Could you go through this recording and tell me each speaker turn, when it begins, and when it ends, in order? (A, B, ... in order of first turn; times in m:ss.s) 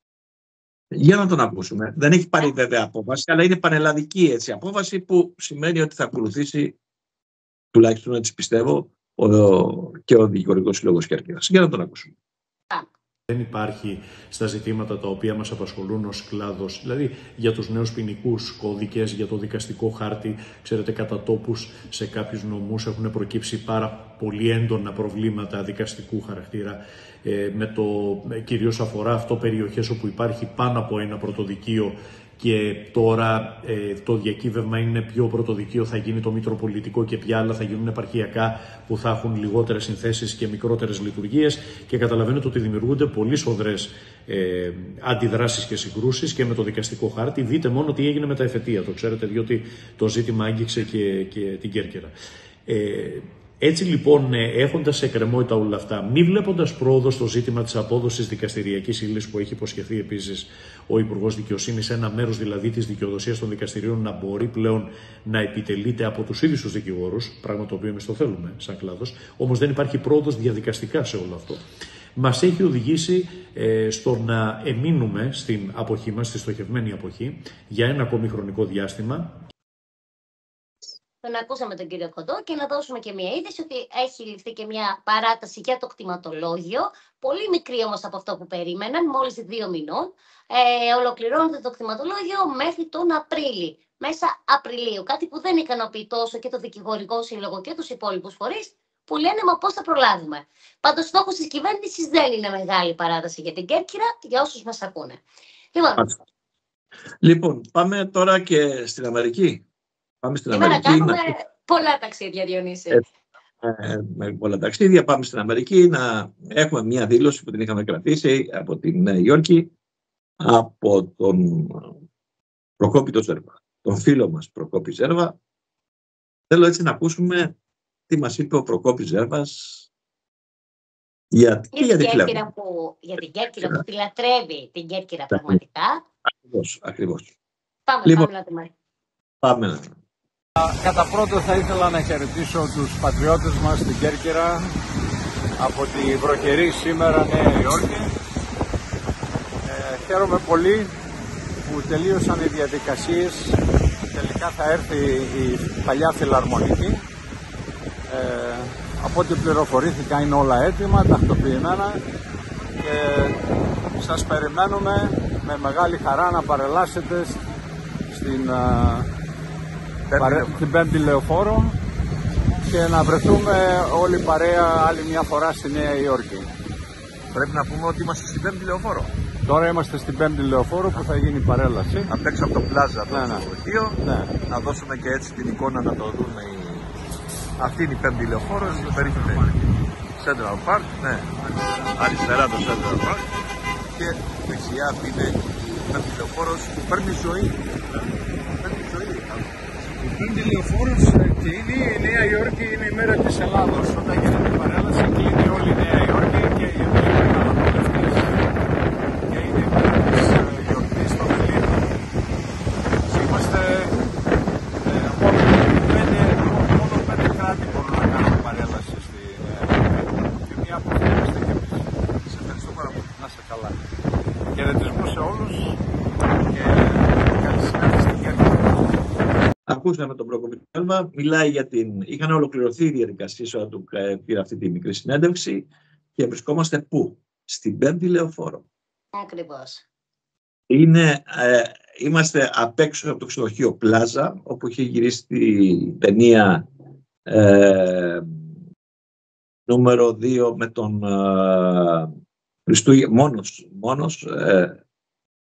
0:00.9-0:06.8 A
0:07.7-0:12.1 A
0:13.3-0:52.1 B
0:52.7-1:11.6 B
1:12.2-1:19.4 B
1:21.2-1:45.2 C
1:47.2-1:49.6 A
1:50.2-1:51.3 A
1:50.6-1:51.1 C
1:51.7-1:53.0 C
1:53.6-1:59.7 A
2:00.4-2:01.9 A
2:02.8-2:05.4 A
2:06.5-2:07.5 A
2:08.1-2:09.9 A
2:11.3-2:12.4 A
2:12.1-2:15.9 C
2:13.6-2:13.8 A
2:15.3-2:15.6 A
2:16.2-2:17.3 A
2:18.0-2:18.6 C
2:19.4-2:20.0 A
2:20.6-2:24.7 D
2:25.6-2:28.1 D
2:29.6-2:30.9 D
2:31.6-2:33.6 D
2:34.1-2:37.0 D
2:38.1-2:42.0 D
2:42.8-2:43.4 D
2:44.0-2:47.4 D
2:48.1-2:49.1 D
2:50.1-2:50.6 E
2:50.2-2:51.7 D
2:52.7-2:56.5 D
2:57.3-2:59.1 E
2:59.5-3:02.1 D
3:02.1-3:06.9 E
3:03.1-3:03.5 D
3:04.0-3:04.4 D
3:07.6-3:09.6 E
3:08.6-3:09.5 D
3:10.2-3:13.3 E
3:14.0-3:18.0 E
3:18.6-3:19.5 E
3:20.0-3:28.4 D
3:29.2-3:32.0 D
3:33.0-3:34.0 D
3:34.8-3:43.7 D
3:44.5-3:45.8 D
3:46.4-3:49.0 D
3:49.7-3:58.6 A
4:00.7-4:06.7 A
4:07.3-4:08.3 A
4:09.7-4:12.1 A
4:12.7-4:14.8 A